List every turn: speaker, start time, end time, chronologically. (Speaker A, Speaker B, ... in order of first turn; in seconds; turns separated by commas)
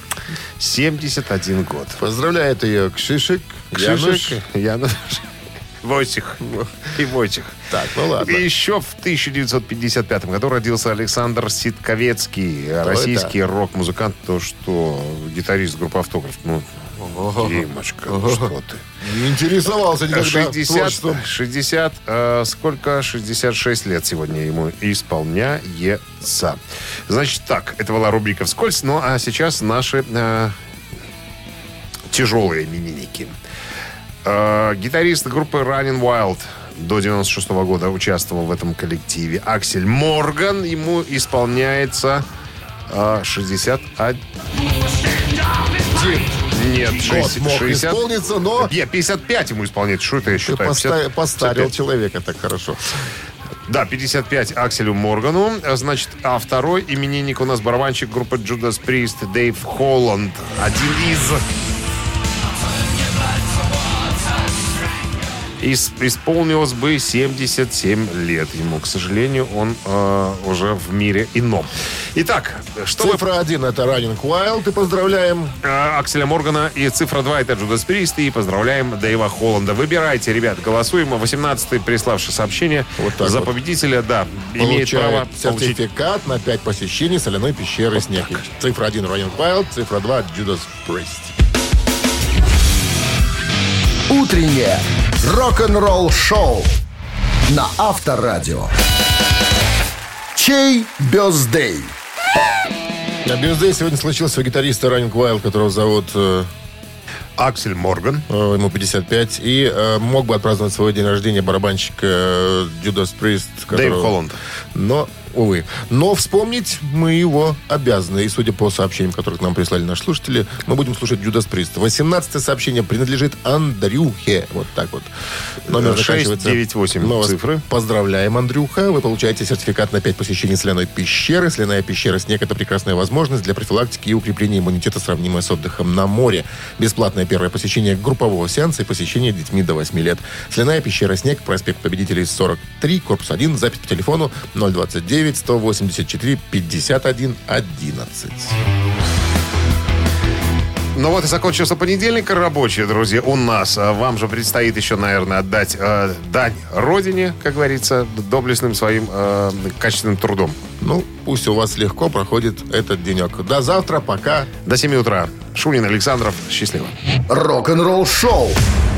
Speaker A: 0.6-2.0, Speaker B: 2.0-4.4, Speaker A: 3.7-5.3, Speaker A: 5.8-7.6, Speaker B: 7.7-8.5, Speaker A: 8.2-16.7, Speaker B: 12.8-13.3, Speaker B: 17.0-21.3, Speaker A: 17.4-18.9, Speaker A: 20.1-30.6, Speaker A: 32.1-33.4, Speaker A: 34.2-42.3, Speaker A: 42.9-44.2, Speaker B: 45.9-46.4, Speaker A: 46.1-48.0, Speaker B: 46.9-48.7, Speaker A: 48.6-51.7, Speaker B: 50.4-52.8, Speaker A: 53.7-61.5, Speaker A: 65.6-73.2, Speaker B: 73.0-75.6, Speaker A: 75.6-85.8, Speaker B: 83.0-83.5, Speaker B: 84.6-91.3, Speaker C: 94.1-96.8, Speaker C: 97.5-98.7, Speaker C: 100.3-102.0, Speaker B: 103.2-106.5, Speaker A: 107.4-108.2, Speaker B: 108.3-114.2, Speaker A: 113.7-114.4, Speaker B: 114.7-125.1, Speaker B: 125.7-148.6, Speaker A: 125.7-127.6, Speaker A: 150.9-160.6, Speaker B: 160.8-164.5, Speaker A: 164.7-166.9, Speaker C: 167.3-168.6